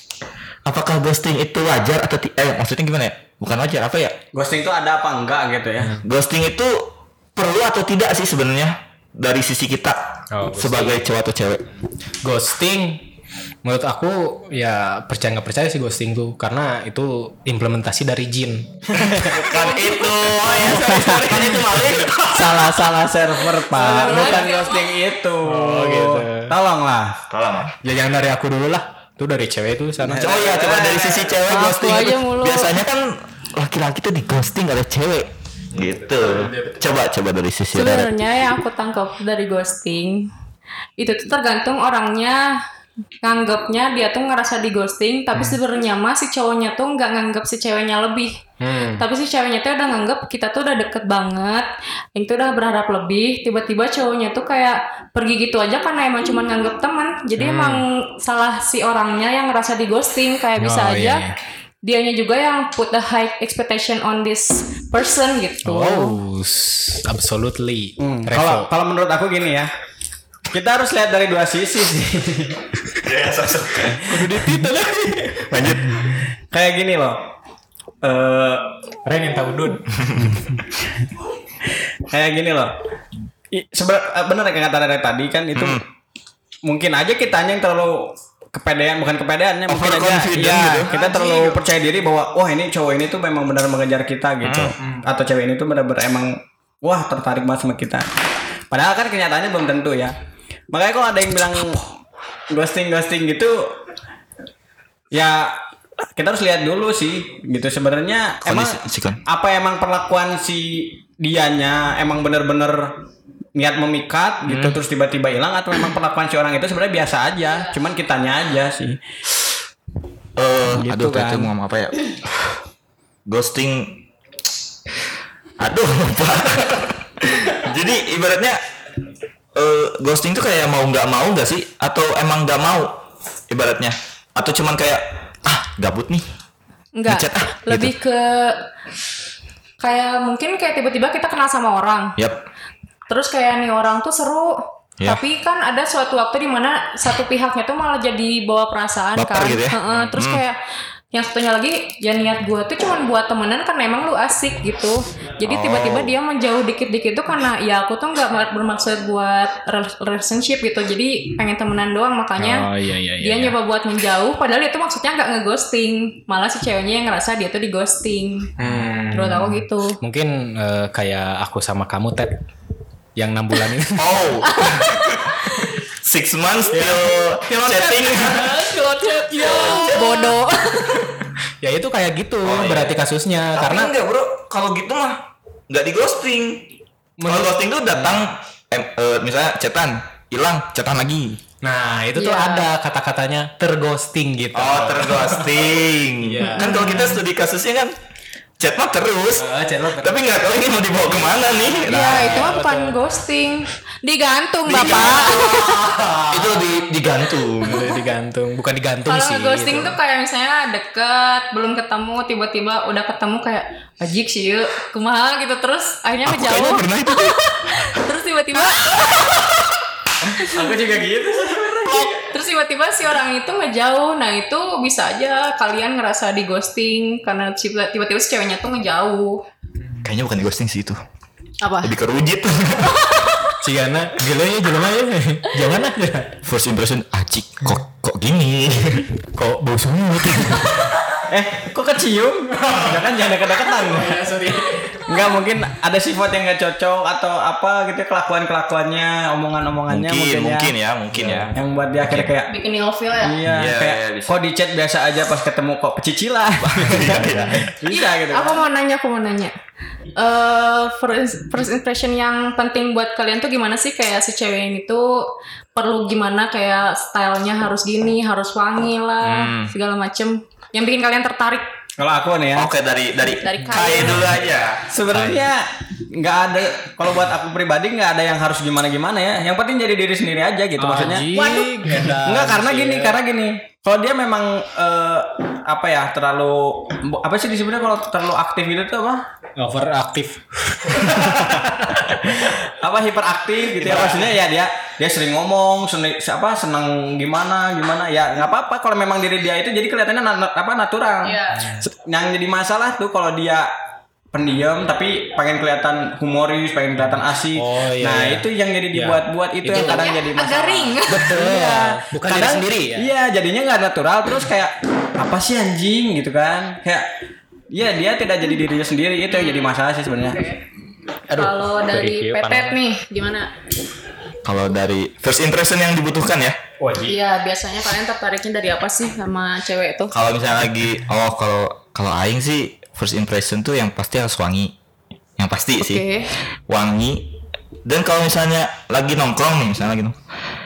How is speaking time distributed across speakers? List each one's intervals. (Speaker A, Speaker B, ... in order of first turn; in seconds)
Speaker A: 0.6-4.2, 6.0-10.0, 10.5-11.6, 19.3-22.6, 27.3-27.8, 30.2-38.1, 73.0-75.9, 79.9-80.3, 85.5-85.8, 89.7-90.9, 94.4-94.7, 108.4-109.2, 120.4-122.0, 123.2-124.0, 125.6-128.6, 129.5-136.2, 137.1-137.9, 142.2-142.4, 149.2-150.4, 155.5-156.1, 173.9-178.7, 179.4-180.3, 182.4-183.0, 183.5-186.7, 187.3-191.4, 194.5-197.9, 198.6-202.5, 204.7-205.8, 206.3-207.9, 216.2-218.0, 218.7-219.6, 230.0-231.0, 231.8-233.3, 236.4-239.1, 249.9-251.5, 252.0-252.3, 253.4-254.4, 256.6-257.7, 269.3-269.7, 272.5-274.8, 293.8-294.2, 324.4-326.6, 330.1-334.7, 335.4-336.0, 336.7-337.3, 337.8-340.2
Speaker B: 4.3-6.0, 18.9-19.8, 20.5-21.6, 22.3-27.2, 30.0-31.4, 68.0-69.7, 70.5-72.7, 76.5-77.2, 78.0-78.8, 82.1-82.7, 83.5-85.8, 86.6-98.1, 98.7-100.2, 100.7-101.8, 102.5-103.7, 105.1-105.6, 106.1-113.0, 113.5-119.0, 120.8-121.5, 220.3-222.2, 241.3-244.2, 245.1-250.7, 251.5-252.5, 253.2-258.6, 272.0-272.7, 274.9-289.2, 292.3-303.7, 304.3-317.1, 317.7-320.4
Speaker C: 10.3-11.0, 12.2-13.0, 13.6-19.3, 20.5-22.9, 23.6-24.5, 25.4-26.5, 27.8-30.3, 35.7-37.0, 48.6-49.0, 57.4-57.8, 60.6-61.4, 65.6-68.7, 74.1-75.7, 79.0-80.4, 94.8-95.0, 114.5-114.7, 162.4-163.6, 168.6-172.4, 173.2-174.2, 176.7-180.0, 181.6-183.9, 187.2-187.6, 191.6-197.1, 199.3-200.2, 201.9-203.0, 205.2-206.6, 207.6-210.0, 233.6-236.4, 239.3-241.2, 242.5-245.1, 251.1-251.5, 275.1-275.5, 280.8-283.2, 289.6-292.5, 301.6-301.8, 307.0-310.1, 311.1-313.1, 321.3-322.8, 326.8-327.2
Speaker D: 23.8-25.0, 31.5-32.8, 37.7-40.3, 41.0-42.6, 43.2-48.4, 49.0-61.2, 61.8-66.2, 90.9-91.5, 136.9-138.7, 139.8-142.2, 143.1-150.6, 151.1-162.7, 163.2-168.5, 169.1-170.0, 174.5-175.7, 179.1-181.1, 192.2-192.7, 196.5-197.1, 201.8-205.8, 209.1-219.2, 221.9-229.4, 231.6-231.9, 252.5-253.4, 257.9-259.5, 260.1-271.6, 273.4-274.4, 301.2-301.7, 309.7-311.7, 319.3-319.7, 320.3-320.6, 321.4-323.5, 327.1-330.1, 335.8-336.4